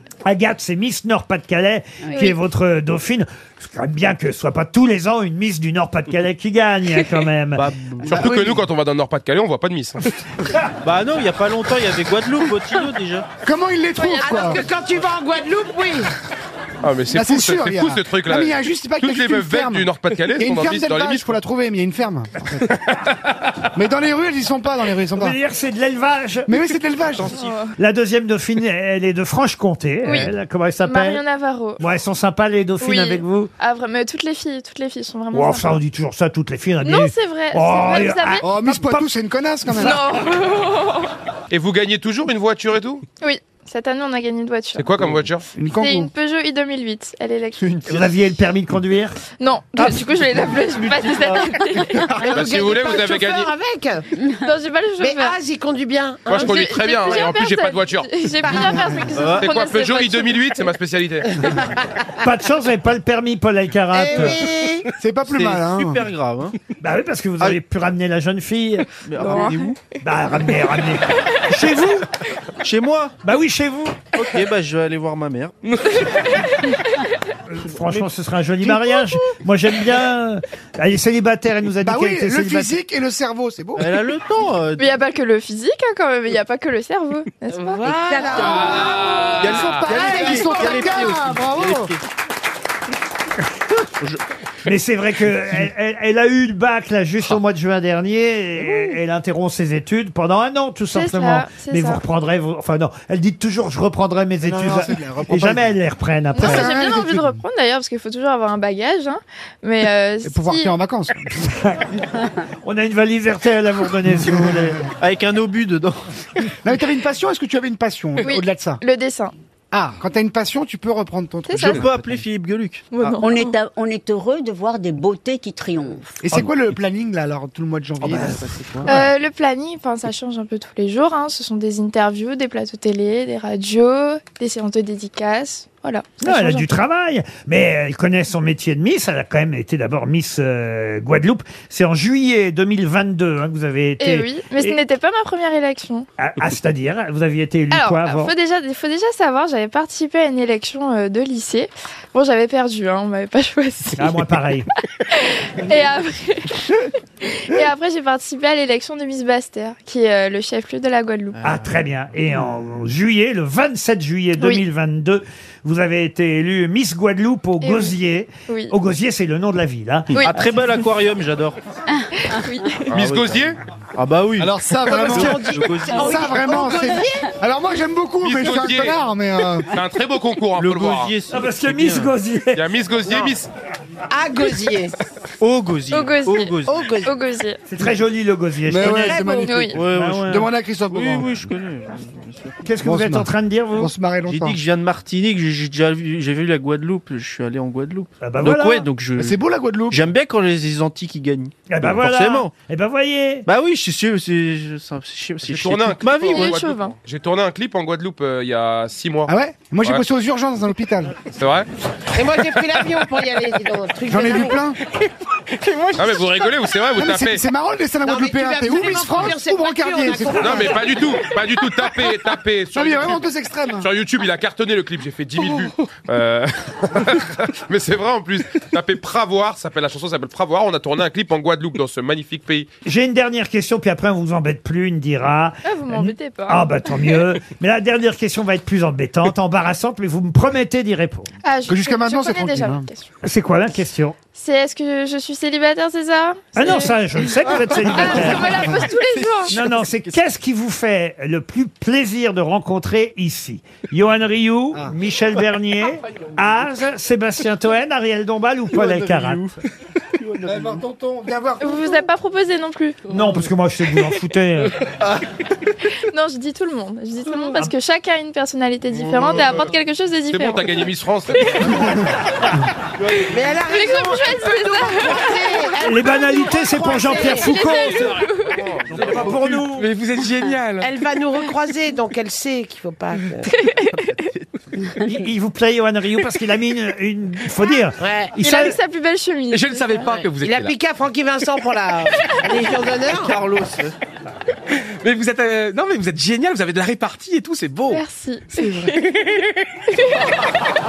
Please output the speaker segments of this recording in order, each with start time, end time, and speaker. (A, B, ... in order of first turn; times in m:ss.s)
0:00.2-0:07.6 A
0:02.0-0:02.3 B
0:07.5-0:08.3 C
0:08.0-0:08.6 D
0:08.0-0:10.1 E
0:10.8-0:13.3 C
0:13.4-0:14.6 D
0:14.0-0:14.6 F
0:14.2-0:16.1 G
0:16.8-0:21.3 E
0:17.1-0:22.8 D
0:23.8-0:25.3 D
0:25.1-0:26.5 A
0:26.5-0:27.3 D
0:27.2-0:27.5 C
0:27.3-0:27.7 F
0:27.8-0:31.2 A
0:30.0-0:30.3 F
0:30.8-0:31.8 F
0:31.8-0:33.5 A
0:32.8-0:35.7 F
0:35.3-0:39.1 A
0:36.8-0:38.5 F
0:38.4-0:40.0 D
0:39.7-0:41.1 F
0:41.5-0:43.0 E
0:43.2-0:44.9 F
0:44.7-0:45.5 E
0:45.5-0:46.1 D
0:45.7-0:47.7 F
0:47.8-0:49.2 A
0:49.3-0:52.1 F
0:51.2-0:51.8 C
0:52.2-0:54.0 G
0:52.3-0:53.5 E
0:54.4-0:55.4 F
0:55.0-0:56.5 G
0:56.3-0:58.1 E
0:56.4-1:00.3 F
0:58.4-0:58.8 G
0:59.2-0:59.5 C
0:59.3-1:01.5 E
1:02.2-1:04.4 A
1:03.9-1:04.9 G
1:05.0-1:06.0 D
1:05.3-1:06.5 C
1:06.8-1:08.8 A
1:09.0-1:09.8 C
1:09.2-1:09.7 F
1:10.0-1:12.1 A
1:12.6-1:13.2 C
1:13.2-1:14.0 A
1:14.1-1:16.4 C
1:15.8-1:17.0 F
1:17.5-1:22.8 A
1:17.6-1:18.1 C
1:21.8-1:23.9 D
1:23.8-1:25.0 C
1:24.8-1:28.0 F
1:27.7-1:29.2 G
1:27.8-1:32.0 C
1:27.9-1:31.8 D
1:28.4-1:30.1 E
1:30.2-1:31.0 G
1:34.6-1:46.7 A
1:38.6-1:39.0 C
1:40.9-1:42.0 F
1:44.4-1:45.7 D
1:46.3-1:50.7 F
1:46.4-1:47.4 D
1:50.2-1:51.5 D
1:51.3-1:51.9 A
1:52.6-1:54.8 A
1:54.2-1:54.5 D
1:54.9-1:56.0 C
1:56.6-1:58.8 D
1:58.2-1:59.3 F
1:59.7-2:02.1 D
2:01.5-2:01.8 F
2:01.5-2:03.2 C
2:02.9-2:03.5 F
2:03.2-2:06.1 B
2:06.2-2:08.8 D
2:08.0-2:09.0 A
2:08.4-2:08.8 C
2:08.8-2:16.7 F
2:16.2-2:24.8 A
2:24.0-2:26.1 F
2:26.2-2:28.3 A
2:27.7-2:34.1 F
2:34.0-2:34.7 A
2:35.1-2:36.6 F
2:37.2-2:41.4 F
2:41.3-2:41.8 C
2:41.4-2:50.5 A
2:47.6-2:48.0 F
2:48.5-2:48.7 F
2:50.1-2:50.8 F
2:50.2-2:51.6 C
2:51.9-2:52.4 B
2:52.2-2:52.9 F
2:52.9-2:53.6 E
2:52.9-2:56.3 C
2:54.4-2:59.6 D
2:54.8-2:57.2 G
2:58.2-2:59.0 E
2:59.7-3:01.2 E
3:00.5-3:02.1 C
3:01.3-3:02.6 A
3:02.5-3:03.5 E
3:04.1-3:04.9 G
3:05.4-3:06.9 C
3:05.9-3:07.6 F
3:06.7-3:07.1 G
3:07.7-3:09.3 A
3:08.7-3:11.3 D
3:09.2-3:09.8 F
3:09.7-3:12.6 C
3:09.8-3:10.4 A
3:12.6-3:13.9 A
3:12.8-3:14.6 D
3:14.2-3:19.4 C
3:18.2-3:18.9 A
3:19.2-3:20.0 D
3:19.9-3:22.5 C
3:21.7-3:23.5 A
3:23.4-3:26.6 C
3:25.4-3:29.3 E
3:26.2-3:27.0 F
3:29.3-3:31.2 D
3:31.3-3:31.7 E
3:32.1-3:34.6 G
3:32.6-3:32.8 E
3:34.1-3:34.8 D
3:35.9-3:37.4 E
3:37.0-3:40.8 D
3:38.0-3:40.8 G
3:40.4-3:43.2 E
3:42.7-3:43.9 D
3:43.8-3:52.7 E
3:52.8-4:01.3 A
3:55.6-3:56.6 F
4:01.4-4:03.1 F
4:01.7-4:02.9 D
4:03.2-4:04.2 A
4:04.3-4:06.9 F
4:06.5-4:08.7 A
4:07.8-4:08.7 D
4:07.9-4:09.6 F
4:08.0-4:10.2 C
4:09.5-4:19.5 A
4:18.7-4:19.6 C
4:20.2-4:20.8 C
4:20.4-4:22.0 D
4:21.6-4:23.1 F
4:23.1-4:24.8 A
4:23.1-4:23.4 C
4:26.0-4:32.0 F
4:29.2-4:29.6 C
4:30.3-4:31.9 E
4:33.3-4:37.5 G
4:33.6-4:38.6 F
4:35.8-4:38.2 A
4:37.8-4:39.2 E
4:39.0-4:39.9 A
4:39.1-4:39.5 C
4:39.2-4:40.9 H
4:40.8-4:43.4 G
4:43.4-4:44.3 F
4:44.0-4:44.4 C
4:45.2-4:48.8 A
4:48.0-4:48.4 G
4:48.4-4:50.2 F
4:49.5-4:50.7 H
4:50.0-4:53.3 G
4:53.0-4:53.9 C
4:55.0-4:58.0 H
4:57.9-5:00.4 F